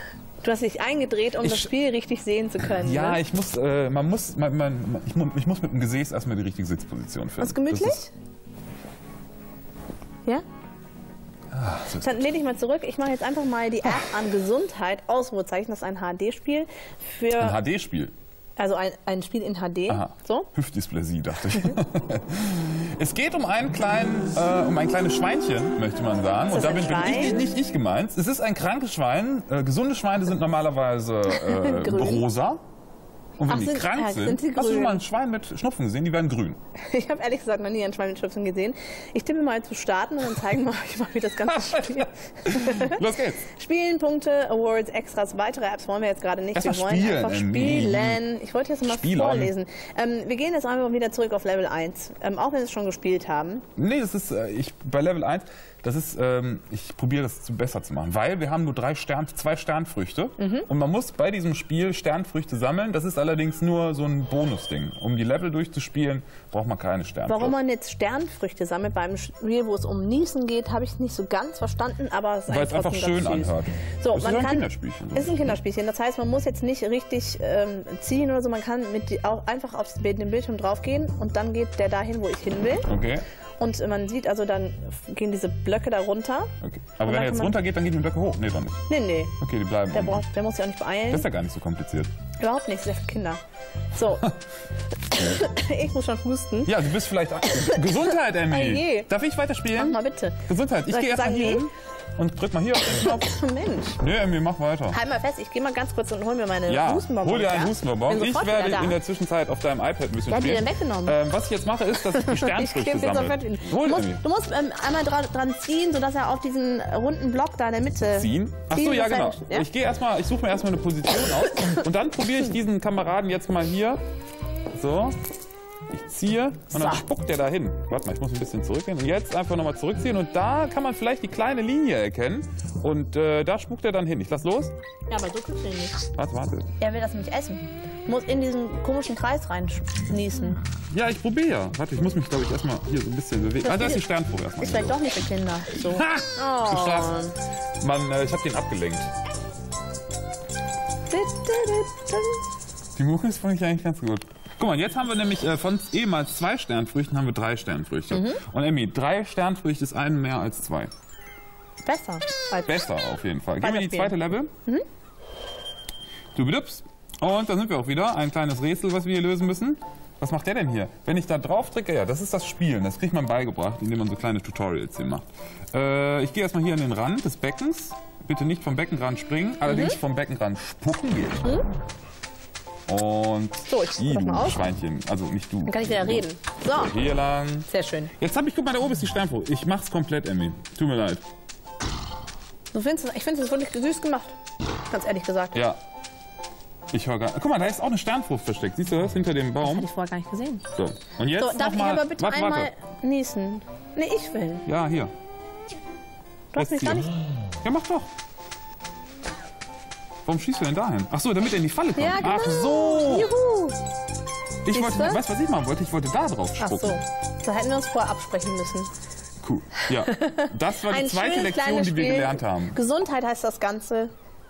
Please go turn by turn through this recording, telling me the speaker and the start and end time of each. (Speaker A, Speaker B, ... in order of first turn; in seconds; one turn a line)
Speaker A: 0.4-3.2
Speaker B: 1.4-1.7
Speaker B: 2.6-8.0
Speaker A: 7.4-8.1
Speaker B: 11.5-12.2
Speaker A: 12.0-17.6
Speaker B: 17.4-18.1
Speaker A: 18.6-20.5
Speaker B: 19.9-32.6
Speaker A: 21.5-21.8
Speaker A: 26.5-27.4
Speaker A: 31.3-32.3
Speaker B: 33.4-36.6
Speaker A: 33.5-35.0
Speaker A: 36.8-53.6
Speaker B: 41.6-43.5
Speaker B: 46.5-48.2
Speaker B: 48.9-49.5
Speaker B: 53.8-67.6
Speaker A: 60.4-60.7
Speaker A: 67.3-82.9
Speaker B: 72.5-75.5
Speaker B: 82.9-83.2
Speaker A: 83.6-86.5
Speaker B: 86.6-88.8
Speaker A: 87.0-87.6
Speaker A: 88.9-89.4
Speaker B: 89.4-90.3
Speaker A: 89.9-91.3
Speaker B: 91.1-92.1
Speaker A: 92.4-93.4
Speaker A: 93.9-94.3
Speaker A: 95.1-96.8
Speaker B: 96.7-103.3
Speaker A: 97.5-99.1
Speaker A: 99.8-101.7
Speaker A: 102.8-104.0
Speaker B: 104.0-105.0
Speaker A: 104.9-109.0
Speaker B: 106.7-114.2
Speaker A: 110.3-111.2
Speaker A: 112.0-119.7
Speaker B: 118.0-124.0
Speaker B: 124.7-125.2
Speaker B: 125.9-134.7
Speaker A: 126.7-127.0
Speaker A: 135.1-136.0
Speaker B: 136.2-136.7
Speaker A: 136.8-140.6
Speaker B: 140.9-145.0
Speaker A: 143.6-144.0
Speaker A: 144.6-147.4
Speaker B: 145.8-147.2
Speaker B: 147.8-149.1
Speaker A: 151.1-152.4
Speaker B: 152.9-160.9
Speaker A: 158.1-158.4
Speaker A: 161.8-162.8
Speaker B: 162.6-164.5
Speaker A: 163.6-164.8
Speaker B: 166.3-181.4
Speaker A: 179.7-180.0
Speaker B: 182.9-191.2
Speaker A: 183.7-184.7
Speaker A: 185.7-187.0
Speaker A: 187.7-188.1
Speaker A: 192.7-194.3
Speaker A: 194.9-195.6
Speaker B: 196.9-199.9
Speaker A: 199.6-200.6
Speaker B: 200.8-202.7
Speaker A: 201.4-204.7
Speaker B: 204.7-205.1
Speaker A: 206.5-207.2
Speaker B: 206.6-207.1
Speaker B: 207.6-208.1
Speaker B: 210.2-213.3
Speaker A: 212.0-213.8
Speaker B: 214.7-217.0
Speaker A: 214.7-215.2
Speaker A: 216.6-218.9
Speaker B: 219.4-222.8
Speaker A: 219.8-224.1